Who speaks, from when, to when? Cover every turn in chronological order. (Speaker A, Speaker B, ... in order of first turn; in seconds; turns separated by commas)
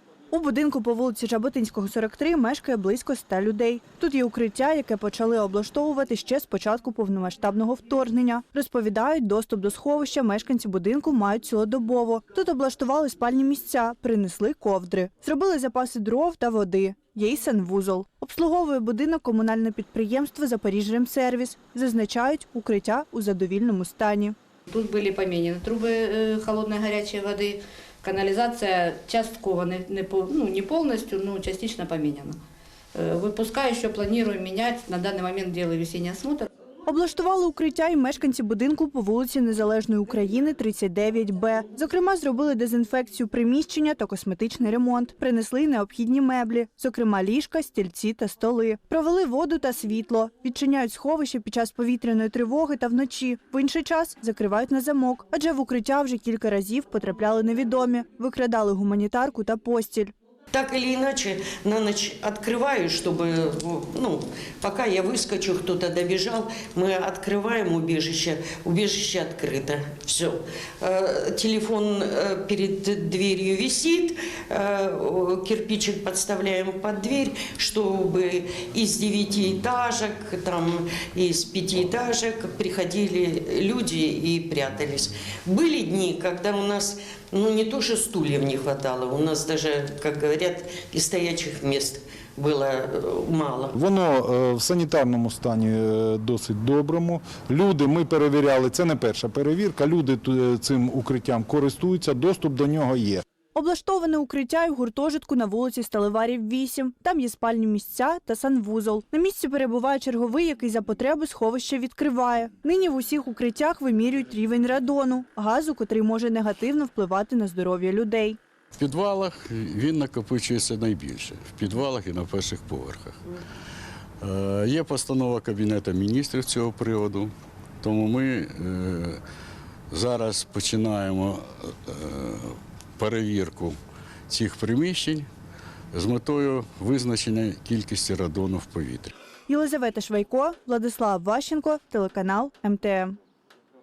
Speaker A: 0.3-24.4, Speaker B: 24.7-32.4, Speaker B: 32.9-36.5, Speaker A: 36.9-60.1, Speaker C: 60.5-93.7, Speaker D: 93.7-103.2, Speaker A: 103.5-118.4, Speaker E: 118.7-123.2, Speaker E: 124.2-129.2, Speaker E: 129.9-133.8, Speaker E: 134.3-135.3, Speaker E: 135.9-139.1, Speaker A: 139.5-143.2